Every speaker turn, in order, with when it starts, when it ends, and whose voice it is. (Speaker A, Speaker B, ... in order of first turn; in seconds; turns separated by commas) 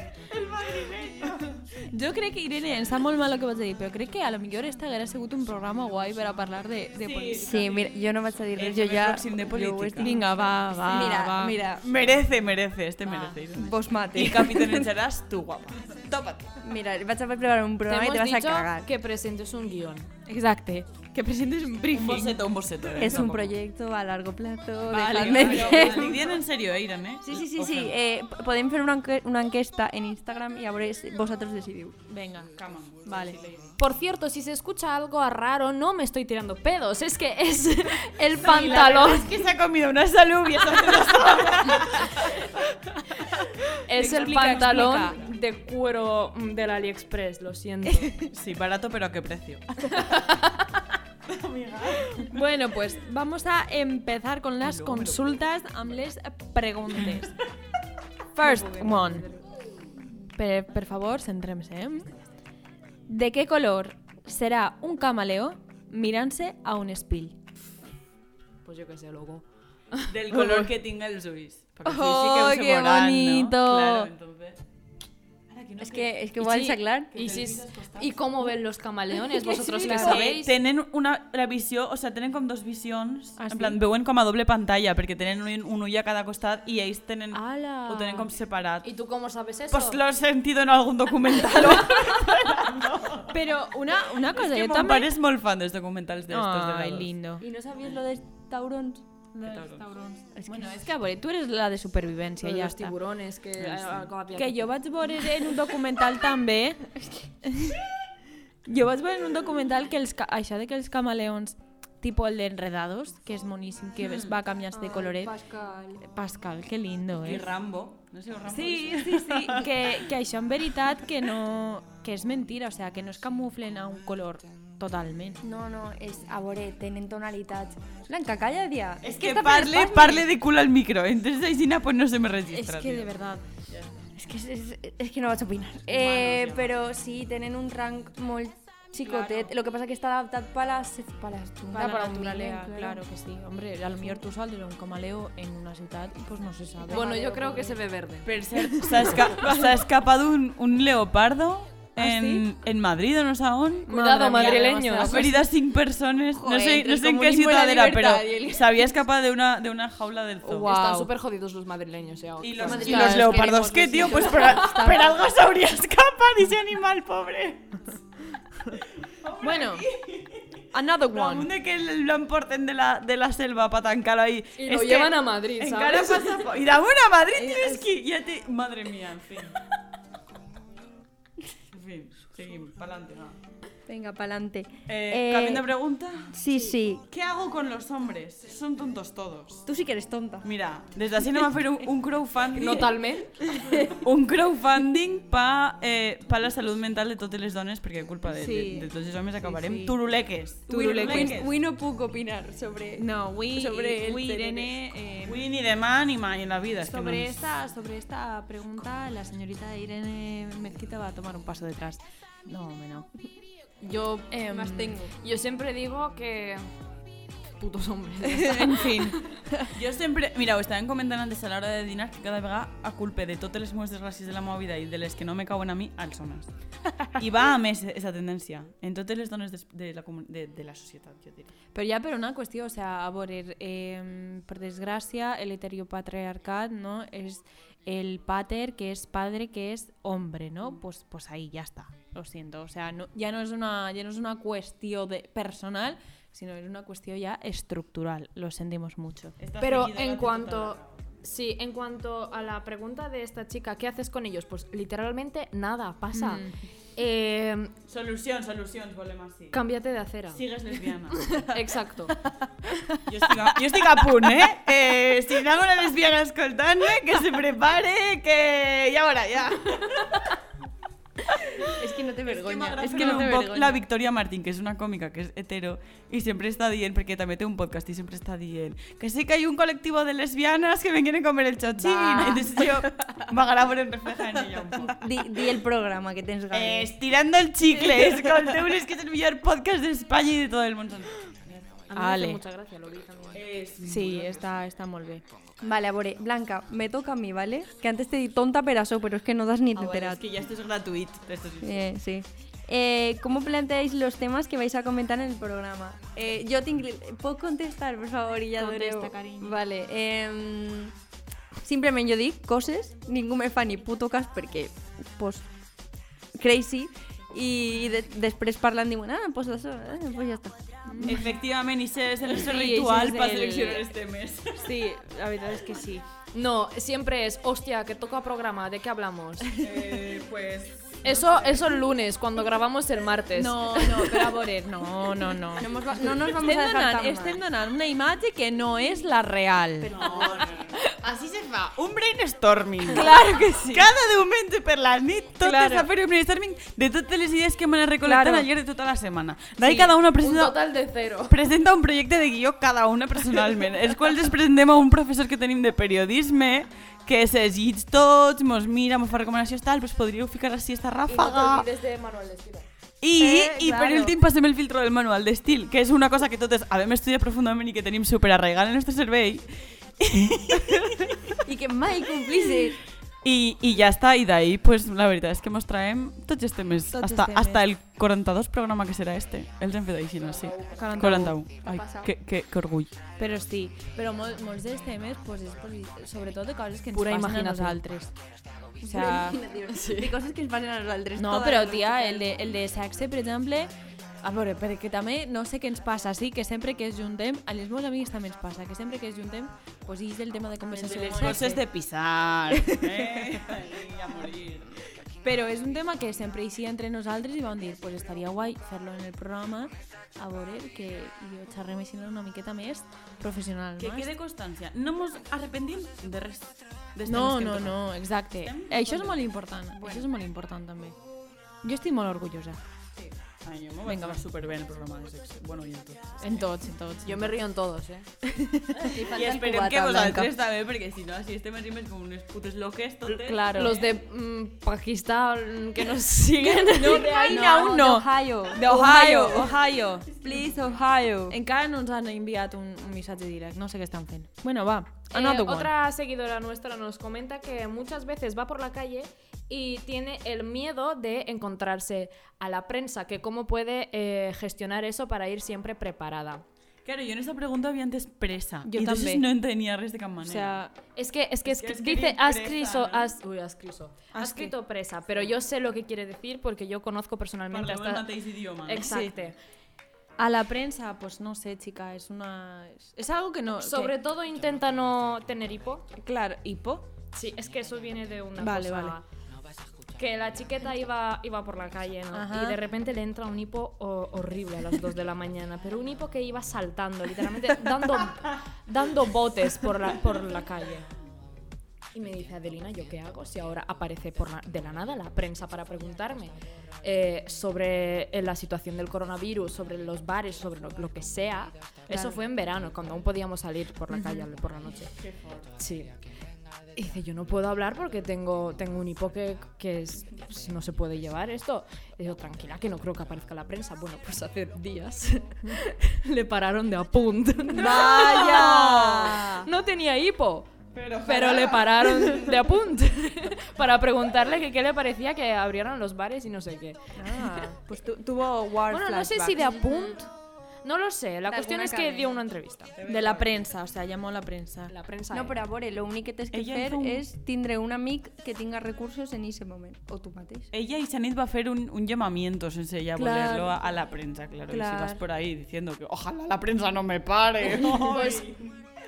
Speaker A: 0.2-1.6, Speaker B: 1.9-7.7, Speaker A: 7.0-7.9, Speaker C: 7.4-11.9, Speaker A: 8.5-10.1, Speaker B: 10.0-11.6, Speaker A: 10.8-16.5, Speaker B: 13.1-13.4, Speaker C: 13.5-14.9, Speaker C: 16.6-18.9, Speaker D: 17.9-20.1, Speaker B: 20.3-22.4, Speaker A: 21.9-23.5, Speaker C: 22.9-26.2, Speaker A: 24.9-27.9, Speaker B: 25.3-26.2, Speaker C: 27.2-32.0, Speaker B: 32.1-32.5, Speaker A: 32.5-33.8, Speaker B: 33.0-33.4, Speaker D: 33.8-39.5, Speaker A: 38.4-43.2, Speaker D: 43.9-48.1, Speaker B: 43.9-45.3, Speaker A: 44.5-44.9, Speaker B: 48.0-48.3, Speaker A: 48.3-50.4, Speaker D: 50.0-50.6, Speaker A: 51.3-52.4, Speaker B: 51.9-57.4, Speaker A: 54.6-55.4, Speaker B: 58.4-59.3, Speaker C: 58.5-59.1, Speaker B: 60.4-62.2, Speaker B: 63.1-67.4, Speaker D: 68.7-70.1, Speaker A: 70.1-74.6, Speaker B: 70.4-70.7, Speaker B: 71.9-74.1, Speaker C: 71.9-72.5, Speaker A: 75.5-76.2, Speaker C: 75.8-77.1, Speaker D: 76.4-80.6, Speaker A: 77.1-78.3, Speaker B: 79.3-80.4, Speaker A: 79.9-88.9, Speaker B: 83.4-83.8, Speaker B: 87.3-88.3, Speaker D: 88.8-90.0, Speaker A: 89.7-93.3, Speaker B: 93.3-95.1, Speaker A: 94.3-97.1, Speaker B: 96.3-97.5, Speaker C: 97.4-99.0, Speaker B: 99.3-102.9, Speaker A: 99.4-99.8, Speaker C: 100.4-100.7, Speaker D: 102.4-104.7, Speaker A: 103.6-104.1, Speaker B: 104.3-106.9, Speaker B: 107.4-107.8, Speaker B: 108.7-115.3, Speaker A: 114.0-114.4, Speaker C: 114.7-116.0, Speaker B: 116.0-117.5, Speaker A: 117.2-119.9, Speaker B: 118.5-125.4, Speaker C: 125.4-130.3, Speaker A: 129.0-133.1, Speaker B: 132.5-133.4, Speaker C: 134.2-143.0, Speaker A: 135.9-136.7, Speaker B: 139.0-139.5, Speaker B: 141.7-147.6, Speaker D: 141.8-142.3, Speaker D: 146.9-148.3, Speaker C: 146.9-147.8, Speaker A: 148.2-160.7, Speaker B: 148.8-149.6, Speaker B: 152.0-152.4, Speaker D: 153.9-155.3, Speaker B: 153.9-155.4, Speaker C: 156.3-157.1, Speaker B: 156.5-158.9, Speaker C: 158.0-158.3, Speaker B: 160.4-161.1, Speaker D: 160.6-163.5, Speaker A: 162.4-167.8, Speaker B: 162.6-165.2, Speaker C: 162.6-163.5, Speaker A: 169.0-179.6, Speaker B: 169.4-169.9, Speaker B: 170.7-171.5, Speaker D: 174.6-176.5, Speaker B: 177.4-177.9, Speaker A: 181.7-183.4, Speaker C: 183.9-185.7, Speaker A: 184.9-186.4, Speaker C: 186.3-187.1, Speaker A: 187.1-189.6, Speaker C: 189.7-190.5, Speaker A: 190.4-193.0, Speaker D: 192.5-193.3, Speaker C: 193.6-194.0, Speaker A: 193.9-201.5, Speaker B: 198.3-200.0, Speaker B: 200.7-201.4, Speaker C: 200.7-204.7, Speaker B: 203.0-205.4, Speaker A: 205.2-207.4, Speaker B: 206.8-213.1, Speaker D: 213.8-216.6, Speaker B: 214.3-215.0, Speaker C: 214.3-215.1, Speaker D: 217.6-219.3, Speaker B: 218.3-219.7, Speaker A: 219.7-226.5, Speaker A: 227.2-231.5, Speaker B: 231.7-249.4, Speaker A: 249.4-251.1, Speaker D: 249.6-257.7, Speaker B: 256.1-256.6, Speaker A: 257.9-259.6, Speaker D: 259.5-260.4, Speaker A: 260.3-261.5, Speaker D: 261.1-262.1, Speaker B: 262.7-263.0, Speaker A: 263.1-270.3, Speaker A: 271.5-285.0, Speaker C: 271.7-273.8, Speaker B: 272.8-273.3, Speaker C: 281.8-282.5, Speaker B: 282.2-282.5, Speaker C: 284.9-286.9, Speaker A: 286.5-291.7, Speaker B: 287.8-288.5, Speaker D: 291.9-293.5, Speaker B: 291.9-292.4, Speaker A: 293.3-294.4, Speaker B: 293.8-295.2, Speaker C: 295.6-300.2, Speaker A: 299.7-301.9, Speaker C: 301.6-310.9, Speaker B: 308.6-309.6, Speaker C: 311.6-315.5, Speaker C: 316.4-321.2, Speaker B: 320.9-321.3, Speaker A: 321.1-324.8, Speaker B: 322.3-323.9, Speaker B: 324.6-326.0, Speaker D: 326.3-329.6, Speaker A: 329.6-331.8, Speaker D: 331.0-334.3, Speaker B: 333.3-340.0, Speaker C: 335.6-337.4, Speaker A: 339.8-350.6, Speaker C: 340.0-340.4, Speaker B: 342.9-343.9, Speaker B: 345.4-345.9, Speaker B: 348.0-348.5, Speaker B: 349.6-349.9, Speaker D: 350.1-351.4, Speaker A: 351.3-361.7, Speaker D: 361.1-362.7, Speaker A: 363.0-371.3, Speaker C: 363.2-364.2, Speaker C: 371.4-372.8, Speaker A: 373.2-382.9, Speaker B: 376.9-377.6, Speaker B: 380.7-381.4, Speaker C: 381.6-382.1, Speaker B: 383.2-388.2, Speaker D: 386.9-387.8, Speaker B: 388.8-389.4, Speaker C: 388.8-392.4, Speaker D: 389.7-390.1, Speaker B: 391.2-393.7, Speaker B: 394.2-401.6, Speaker A: 400.7-404.9, Speaker B: 402.6-403.5, Speaker B: 405.2-414.1, Speaker A: 413.8-417.9, Speaker B: 417.1-421.0, Speaker A: 418.4-419.3, Speaker B: 421.6-422.6, Speaker A: 423.4-426.5, Speaker B: 423.9-424.2, Speaker B: 426.2-427.3, Speaker D: 427.1-428.1, Speaker B: 428.2-428.9, Speaker C: 428.9-430.3, Speaker A: 429.0-433.9, Speaker B: 433.2-433.8, Speaker D: 433.5-437.4, Speaker B: 436.7-440.2, Speaker C: 436.8-441.4, Speaker B: 441.3-445.7, Speaker D: 445.1-456.4, Speaker A: 456.8-460.6, Speaker B: 458.6-459.2, Speaker B: 460.2-460.7, Speaker D: 461.0-469.4, Speaker A: 461.4-463.1, Speaker A: 464.1-464.5, Speaker A: 467.5-468.9, Speaker B: 468.8-469.1, Speaker B: 470.2-473.9, Speaker D: 473.6-475.9, Speaker B: 476.0-476.9, Speaker D: 477.1-479.1, Speaker B: 478.4-479.0, Speaker D: 480.0-490.9, Speaker B: 482.1-482.6, Speaker D: 491.9-504.9, Speaker B: 503.9-504.3, Speaker A: 505.0-505.5, Speaker D: 505.6-505.9, Speaker D: 506.8-527.4, Speaker B: 517.5-519.5, Speaker A: 517.6-519.1, Speaker A: 520.7-522.5, Speaker B: 527.0-529.9, Speaker D: 528.7-530.1, Speaker D: 530.6-532.7, Speaker C: 531.3-532.2, Speaker A: 532.7-533.4, Speaker B: 532.8-534.7, Speaker D: 534.7-535.4, Speaker C: 535.1-540.5, Speaker A: 536.3-537.0, Speaker A: 540.5-548.7, Speaker B: 543.0-543.6, Speaker B: 544.5-545.0, Speaker D: 547.5-548.3